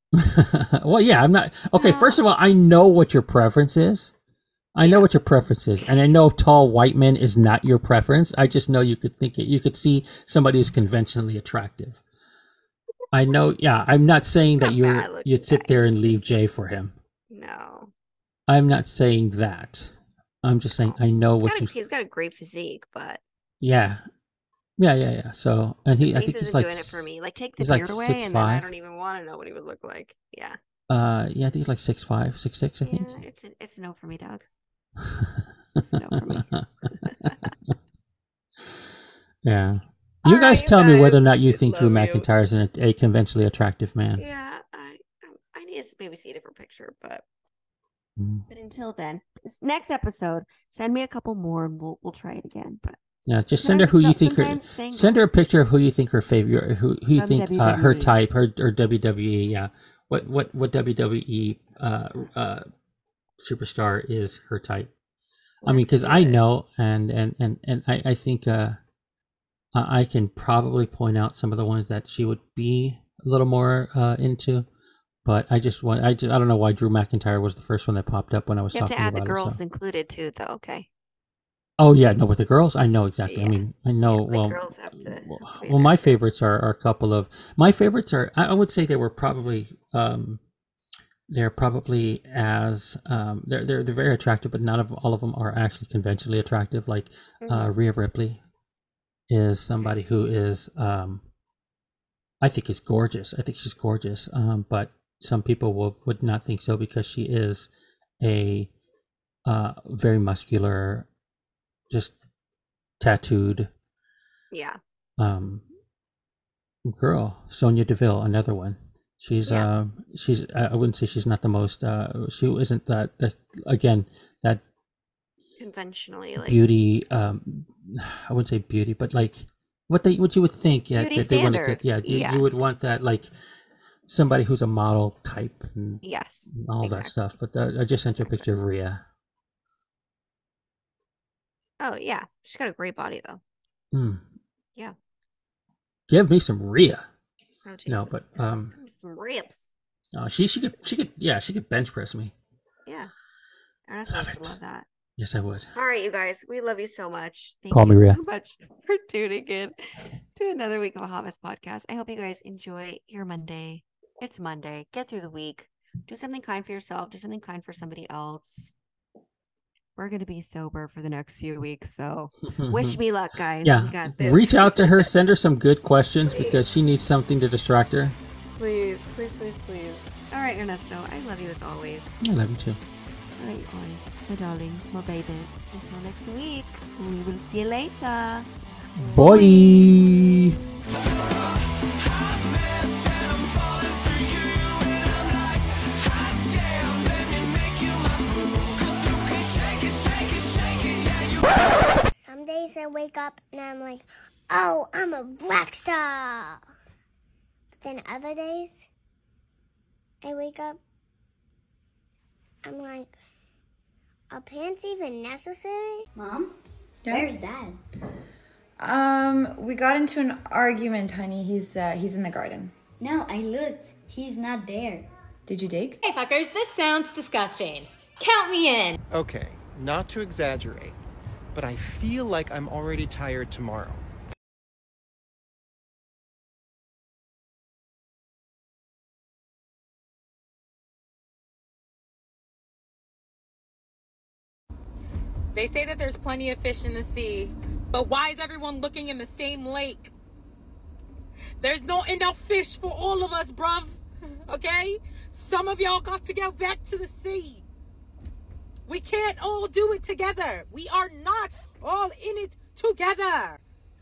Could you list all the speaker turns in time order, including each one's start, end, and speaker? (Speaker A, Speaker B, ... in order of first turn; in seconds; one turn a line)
Speaker A: 0.2-4.1
Speaker B: 1.8-2.2
Speaker A: 4.8-12.0
Speaker A: 13.1-17.0
Speaker B: 14.6-16.3
Speaker B: 17.3-17.9
Speaker A: 18.5-21.7
Speaker B: 20.8-23.2
Speaker A: 23.6-24.0
Speaker A: 24.8-27.1
Speaker B: 26.0-30.6
Speaker A: 27.6-28.7
Speaker A: 30.9-33.2
Speaker B: 32.8-34.5
Speaker A: 35.0-35.5
Speaker B: 35.8-37.5
Speaker A: 36.1-37.7
Speaker A: 39.4-44.2
Speaker B: 40.2-42.3
Speaker B: 44.2-47.2
Speaker A: 48.2-48.5
Speaker B: 48.5-53.0
Speaker A: 53.3-62.7
Speaker B: 53.6-55.3
Speaker B: 57.1-58.1
Speaker A: 63.4-64.9
Speaker B: 65.6-66.4
Speaker A: 65.6-68.8
Speaker A: 69.7-74.7
Speaker A: 75.2-79.6
Speaker B: 78.7-80.9
Speaker A: 81.8-90.4
Speaker B: 83.3-86.1
Speaker A: 91.3-98.4
Speaker B: 97.4-97.7
Speaker A: 99.3-101.2
Speaker A: 102.4-108.7
Speaker A: 109.5-111.1
Speaker A: 111.9-112.2
Speaker A: 113.0-113.7
Speaker B: 114.5-114.8
Speaker A: 115.2-115.7
Speaker A: 116.8-124.6
Speaker B: 125.6-126.6
Speaker A: 126.4-133.3
Speaker B: 130.9-132.4
Speaker A: 134.1-139.0
Speaker B: 136.0-137.1
Speaker B: 141.8-143.4
Speaker A: 143.9-144.2
Speaker A: 146.1-147.1
Speaker B: 147.7-149.7
Speaker A: 147.9-148.7
Speaker A: 150.1-152.3
Speaker B: 152.9-153.1
Speaker B: 153.9-154.9
Speaker A: 154.1-154.6
Speaker A: 155.2-155.7
Speaker B: 155.8-168.7
Speaker A: 157.7-158.2
Speaker B: 170.0-175.1
Speaker A: 172.5-173.0
Speaker A: 173.6-178.2
Speaker B: 176.3-176.6
Speaker B: 178.6-182.2
Speaker A: 182.2-182.8
Speaker B: 183.4-188.5
Speaker A: 189.0-190.6
Speaker B: 189.0-189.6
Speaker C: 202.2-206.6
Speaker C: 207.8-208.8
Speaker C: 210.2-210.8
Speaker C: 212.6-213.1
Speaker C: 214.3-216.1
Speaker D: 216.2-216.5
Speaker E: 217.0-217.3
Speaker D: 217.1-217.8
Speaker E: 218.8-222.7
Speaker D: 223.0-225.1
Speaker E: 225.5-226.0
Speaker F: 226.0-229.0
Speaker G: 229.1-231.0
Speaker G: 231.5-234.0
Speaker H: 245.5-250.1
Speaker H: 251.6-257.6
Speaker H: 258.9-263.6